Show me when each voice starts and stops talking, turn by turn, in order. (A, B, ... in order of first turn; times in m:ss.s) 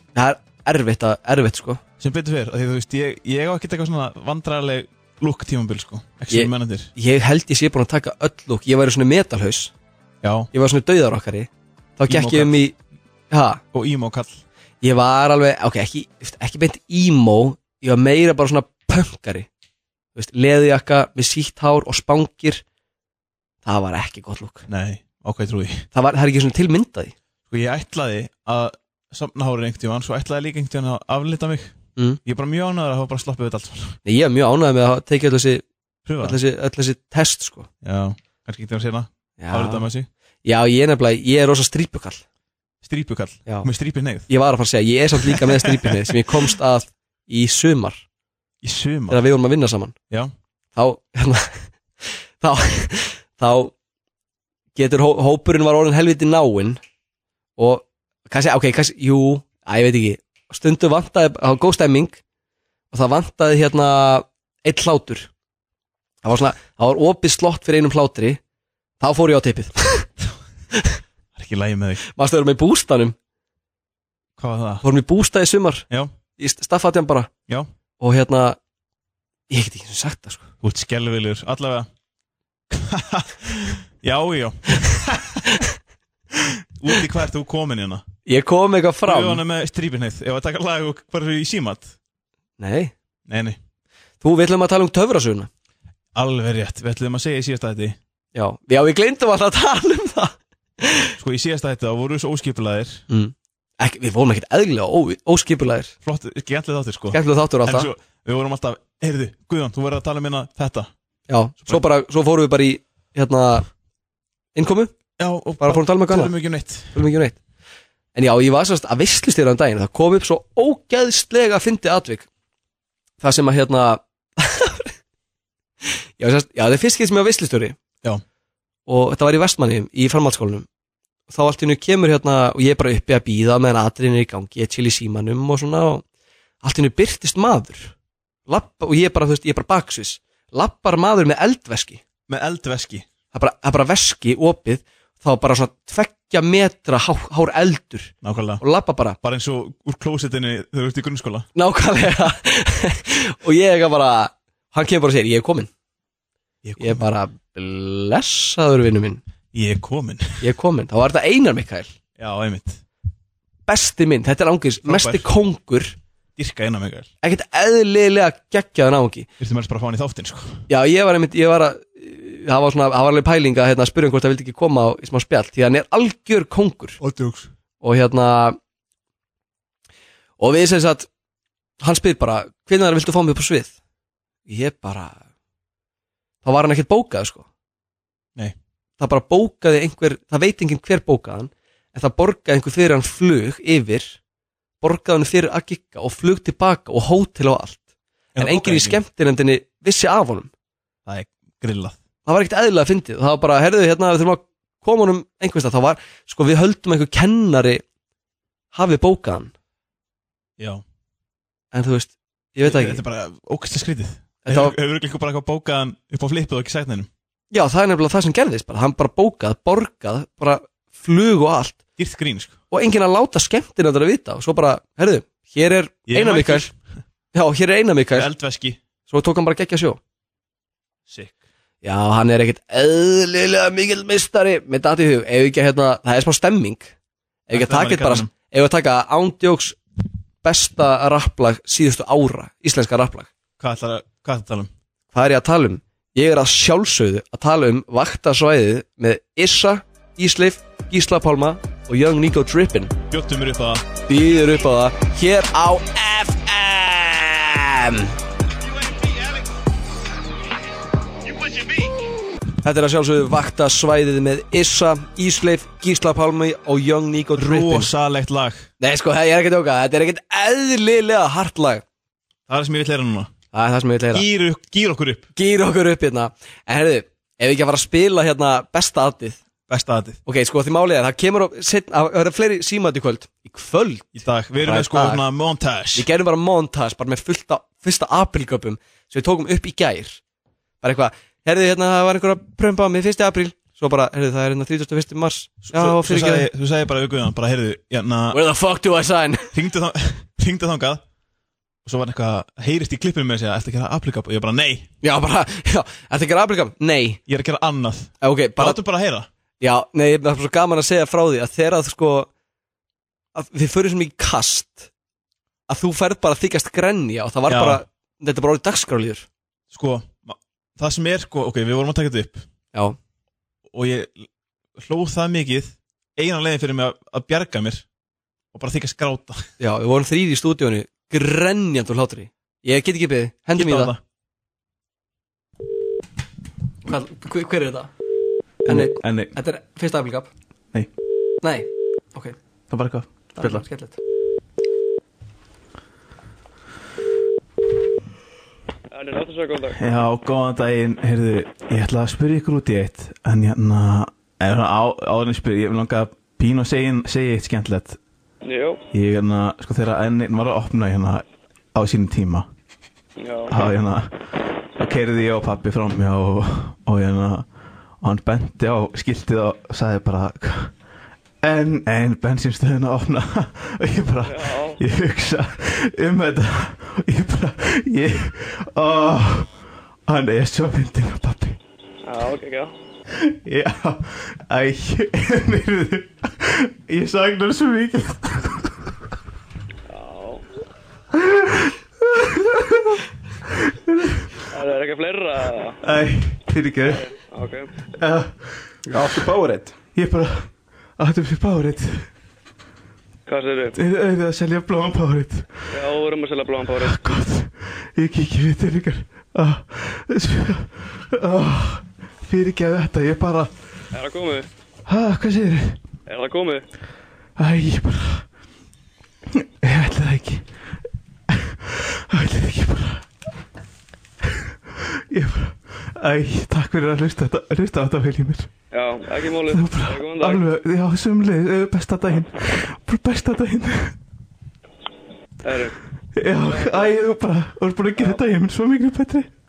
0:00.1-0:01.8 A
0:02.0-0:06.9 B
0:06.3-0:09.7 A
0:10.2-0:10.5 B
0:10.5-0:12.7 A
0:12.1-0:12.6 B
0:13.3-0:13.6 A
0:13.7-0:14.4 B
0:14.8-0:19.5 A
0:20.1-0:22.6 A
0:23.6-0:24.6 A
0:24.7-0:25.8 B
0:25.9-0:27.1 A
0:27.5-0:34.0 B
0:34.0-0:35.6 A
0:36.0-0:36.4 B
0:36.2-0:37.7 A
0:37.8-0:40.1 B
0:39.4-0:39.8 A
0:40.4-0:42.2 A
0:42.8-0:44.3 B
0:44.3-0:48.0 A
0:45.2-0:46.4 B
0:48.6-0:49.2 B
0:49.1-0:49.9 A
0:50.8-0:53.7 A
0:54.7-0:56.8 A
0:57.6-1:02.2 A
1:02.9-1:05.3 A
1:06.2-1:08.4 A
1:09.0-1:10.1 A
1:11.3-1:12.0 B
1:12.0-1:13.1 A
1:14.4-1:14.8 B
1:14.8-1:15.8 A
1:16.4-1:17.3 A
1:18.0-1:18.6 A
1:19.5-1:20.5 A
1:20.6-1:21.9 B
1:22.7-1:25.6 B
1:26.3-1:28.0 B
1:28.2-1:29.4 A
1:29.0-1:32.0 B
1:32.6-1:32.9 A
1:33.3-1:33.6 B
1:34.2-1:35.5 A
1:36.1-1:38.0 B
1:38.3-1:41.1 A
1:41.2-1:43.0 B
1:43.1-1:45.9 A
1:46.0-1:50.9 B
1:47.1-1:47.9 A
1:51.3-1:53.7 A
1:54.5-1:54.9 A
1:55.2-1:57.0 B
1:55.6-1:56.3 A
1:56.9-1:57.4 A
1:58.1-2:02.3 A
2:03.2-2:04.9 A
2:06.2-2:07.8 A
2:08.9-2:10.7 A
2:11.3-2:16.0 A
2:16.6-2:17.9 A
2:18.5-2:22.0 A
2:22.3-2:23.0 B
2:23.3-2:29.2 A
2:28.2-2:28.6 B
2:29.2-2:31.5 B
2:31.6-2:35.7 A
2:36.6-2:37.0 B
2:36.8-2:39.2 A
2:39.5-2:40.4 B
2:40.4-2:41.9 A
2:42.2-2:42.8 B
2:43.7-2:46.0 A
2:44.8-2:45.3 B
2:46.4-2:47.1 B
2:47.2-2:49.3 A
2:49.4-2:50.6 B
2:50.7-2:57.0 A
2:57.0-2:57.5 B
2:57.8-2:58.6 A
3:00.4-3:01.1 A
3:01.8-3:03.7 A
3:04.5-3:05.2 A
3:06.4-3:07.4 A
3:09.0-3:14.2 A
3:14.8-3:17.8 A
3:18.3-3:19.0 B
3:18.4-3:20.5 A
3:21.0-3:22.0 B
3:22.2-3:27.8 A
3:28.7-3:29.5 A
3:30.6-3:30.8 B
3:31.7-3:33.0 A
3:32.6-3:37.1 B
3:34.4-3:34.7 A
3:37.5-3:41.8 A
3:42.0-3:42.6 B
3:42.7-3:46.7 A
3:46.1-3:46.7 B
3:47.3-3:48.3 A
3:48.1-3:48.8 B
3:49.1-3:50.0 A
3:51.1-3:51.4 B
3:51.8-3:56.9 A
3:57.5-3:59.8 A
3:57.5-3:58.3 B
4:00.4-4:03.3 A
4:03.6-4:04.7 B
4:05.1-4:12.9 A
4:13.1-4:13.8 B
4:14.1-4:18.1 A
4:18.9-4:19.3 B
4:22.6-4:27.9 A
4:27.4-4:28.7 B
4:28.8-4:31.8 A
4:32.5-4:33.3 B
4:33.5-4:34.2 A
4:34.1-4:35.3 B
4:35.3-4:39.4 A
4:39.7-4:40.2 B
4:40.2-4:45.2 A
4:44.1-4:46.1 B
4:45.9-4:50.2 A
4:50.8-4:56.5 A
4:55.6-4:58.4 B
4:58.3-4:59.5 A
4:59.5-5:01.0 B
5:01.8-5:04.9 B
5:05.0-5:07.2 A
5:07.3-5:09.3 B
5:08.2-5:08.8 A
5:09.6-5:12.3 A
5:13.3-5:14.9 A
5:15.7-5:19.2 A
5:17.5-5:17.8 B
5:19.7-5:22.4 B
5:23.7-5:27.8 B
5:28.5-5:29.5 B
5:29.6-5:33.9 A
5:33.5-5:34.0 B
5:36.8-5:37.9 A
5:38.6-5:39.4 B
5:38.7-5:40.3 A
5:41.4-5:42.4 A
5:42.7-5:43.6 B
5:43.3-5:44.0 A
5:48.9-5:49.9 C
5:49.7-5:58.0 B
5:58.4-5:58.8 C
5:58.9-6:02.5 B
6:03.2-6:03.6 C
6:03.5-6:04.1 B
6:04.8-6:07.4 B
6:08.0-6:10.7 B
6:11.4-6:19.5 B
6:14.2-6:14.8 C
6:20.1-6:21.6 B
6:22.0-6:22.7 C
6:23.2-6:28.7 B
6:29.9-6:30.4 C
6:31.2-6:33.0 B
6:33.5-6:34.3 B
6:34.5-6:35.8 C
6:35.8-6:37.0 B
6:36.8-6:37.7 C
6:38.0-6:42.1 B
6:43.3-6:43.8 C
6:43.7-6:45.5 B
6:45.7-6:47.2 C
6:46.8-6:53.5 B
6:53.9-6:54.5 C
6:54.9-6:55.8 B
6:56.1-6:56.6 C
6:57.4-6:58.2 B
6:59.6-7:00.4 B
7:01.3-7:03.0 B
7:05.1-7:08.5 B
7:08.7-7:10.5 C
7:09.5-7:14.0 B
7:15.4-7:15.8 C
7:16.2-7:19.3 B
7:16.4-7:16.9 C